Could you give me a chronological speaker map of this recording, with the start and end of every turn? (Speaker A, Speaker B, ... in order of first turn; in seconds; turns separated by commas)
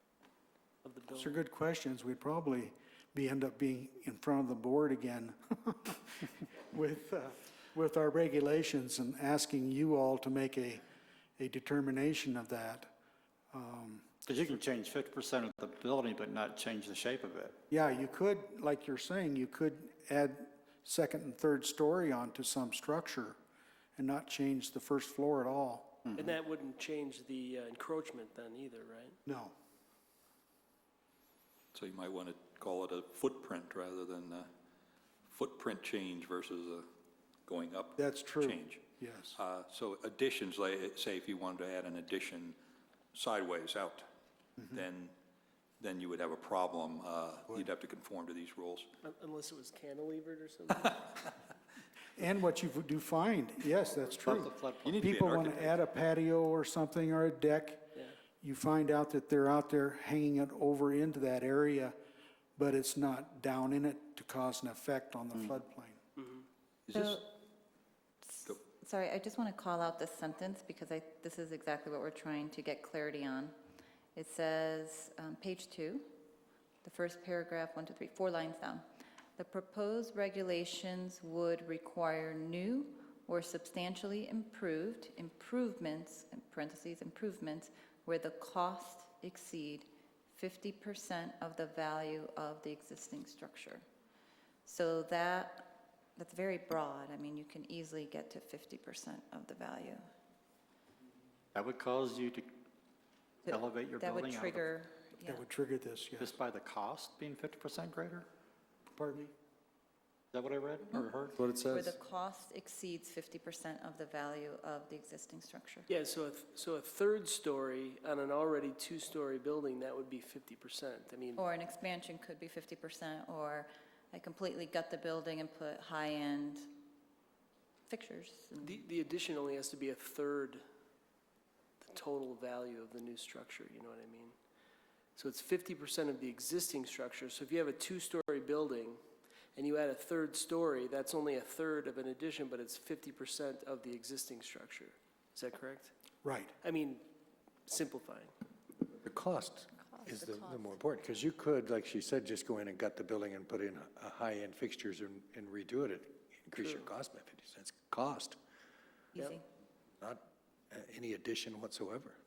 Speaker A: 0.8-1.4, Speaker B: 1.1-10.8, Speaker B: 11.4-12.9, Speaker B: 13.5-14.2, Speaker C: 14.3-17.6, Speaker B: 17.7-23.4, Speaker B: 24.0-26.1, Speaker A: 26.1-29.2, Speaker B: 29.2-29.5, Speaker D: 31.7-34.5, Speaker D: 35.3-36.8, Speaker D: 37.5-42.6, Speaker B: 38.0-39.4, Speaker D: 43.1-44.1, Speaker D: 44.7-45.1, Speaker D: 45.8-48.9, Speaker A: 49.0-51.3, Speaker B: 52.2-62.0, Speaker C: 54.2-55.1, Speaker D: 54.8-55.8, Speaker B: 62.6-66.0, Speaker D: 66.9-67.2, Speaker E: 66.9-67.4, Speaker E: 68.2-73.5, Speaker E: 74.2-76.1, Speaker E: 76.8-78.8, Speaker E: 79.4-93.8, Speaker E: 94.7-100.0, Speaker C: 101.5-102.6, Speaker C: 103.5-104.7, Speaker E: 103.5-105.4, Speaker B: 105.2-106.3, Speaker C: 106.2-108.3, Speaker B: 108.9-109.3, Speaker C: 110.3-111.5, Speaker E: 111.7-115.9, Speaker A: 115.9-121.5, Speaker E: 121.4-126.7, Speaker E: 127.9-128.8, Speaker A: 128.6-130.6, Speaker A: 131.8-134.3, Speaker A: 135.2-139.0, Speaker A: 139.6-145.9, Speaker B: 146.2-146.5, Speaker A: 146.6-147.0, Speaker A: 147.7-148.3, Speaker F: 149.0-158.4, Speaker E: 159.1-159.4, Speaker F: 160.0-162.2